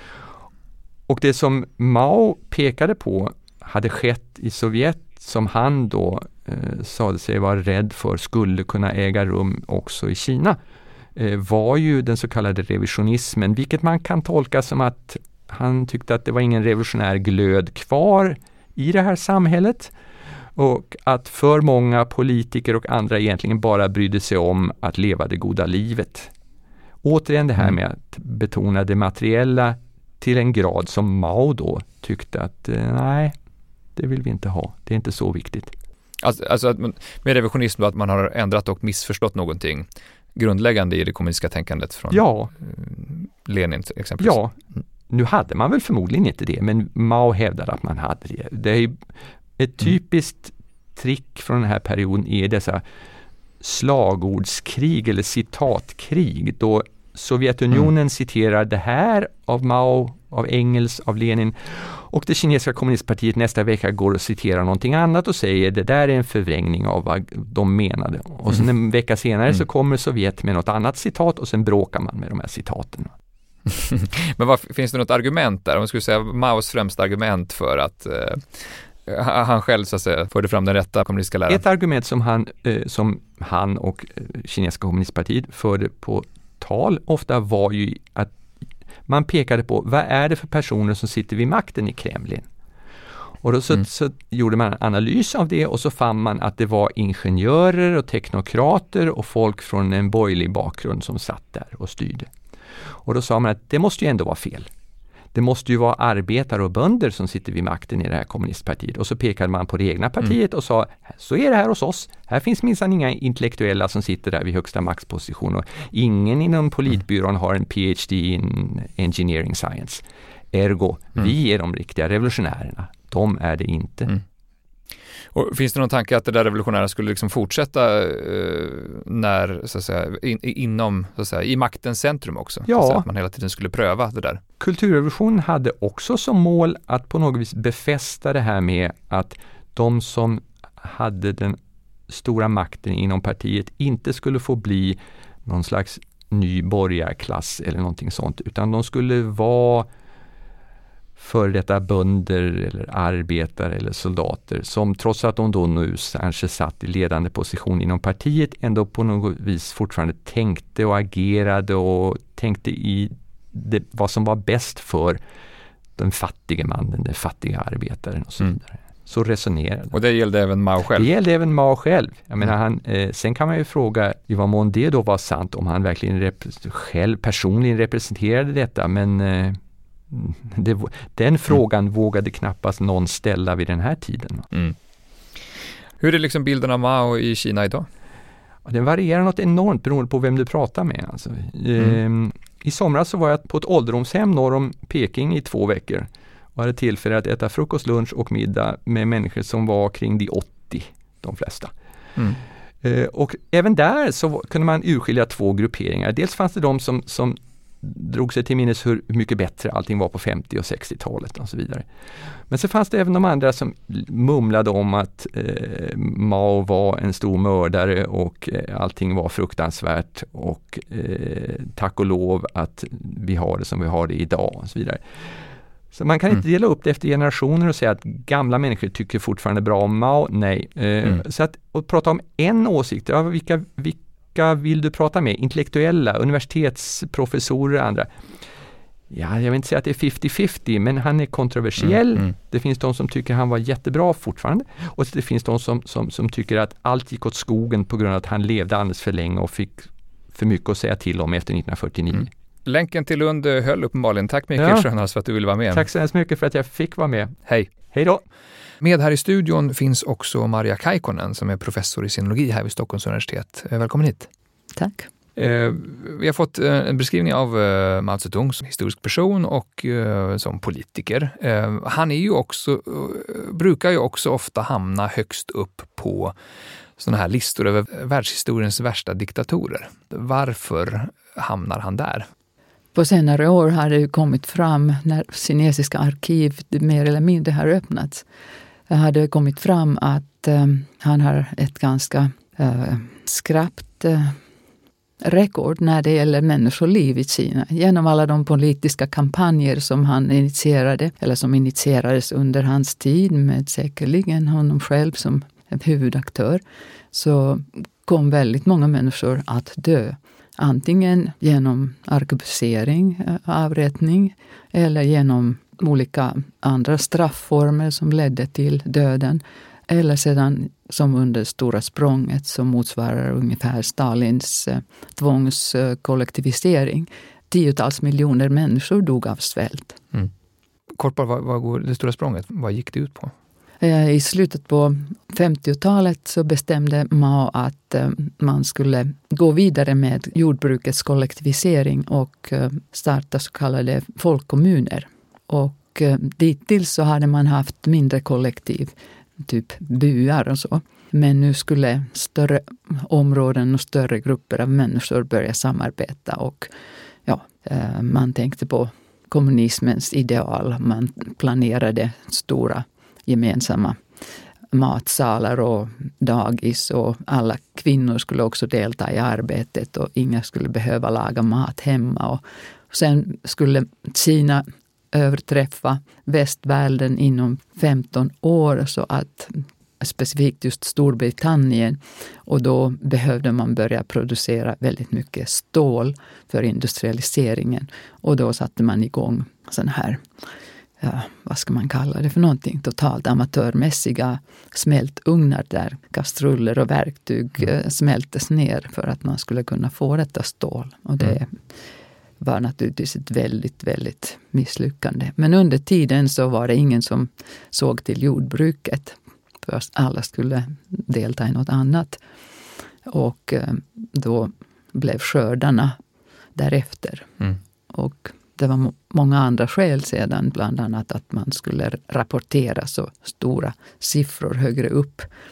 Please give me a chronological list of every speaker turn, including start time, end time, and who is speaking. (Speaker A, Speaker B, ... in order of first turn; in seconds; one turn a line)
Speaker A: 1.1-10.6
Speaker A: 11.2-19.9
Speaker A: 20.6-26.3
Speaker A: 27.0-33.3
Speaker A: 34.0-35.7
Speaker B: 36.2-44.4
Speaker A: 42.1-42.5
Speaker A: 44.2-44.5
Speaker A: 45.1-49.0
Speaker A: 49.6-52.8
Speaker A: 53.6-73.1
Speaker B: 73.7-81.6
Speaker A: 81.5-88.3
Speaker A: 89.1-92.5
Speaker A: 93.4-102.3
Speaker A: 103.0-104.7
Speaker A: 105.3-124.2
Speaker B: 125.3-134.4
Speaker A: 132.7-133.0
Speaker A: 134.6-141.6
Speaker A: 142.1-149.9
Speaker A: 151.2-165.2
Speaker A: 166.0-169.9
Speaker B: 169.9-171.1
Speaker A: 170.9-179.6
Speaker A: 180.1-184.5
Speaker B: 186.0-187.9
Speaker A: 188.6-201.7
Speaker A: 202.8-211.8
Speaker A: 212.5-225.0
Speaker A: 225.9-238.1
Speaker A: 239.1-252.3
Speaker B: 252.7-255.8
Speaker A: 254.6-254.9
Speaker A: 255.7-257.3
Speaker A: 257.9-258.2
Speaker B: 258.8-264.3
Speaker C: 264.8-265.1
Speaker B: 265.4-276.4
Speaker B: 277.0-282.3
Speaker C: 282.9-288.2
Speaker C: 288.9-294.4
Speaker C: 295.2-330.0
Speaker B: 330.9-333.3
Speaker C: 333.8-356.7
Speaker C: 357.2-364.0
Speaker C: 364.7-390.2
Speaker C: 391.0-401.5
Speaker C: 402.4-412.2
Speaker C: 413.1-415.9
Speaker C: 416.5-417.3
Speaker C: 417.9-425.3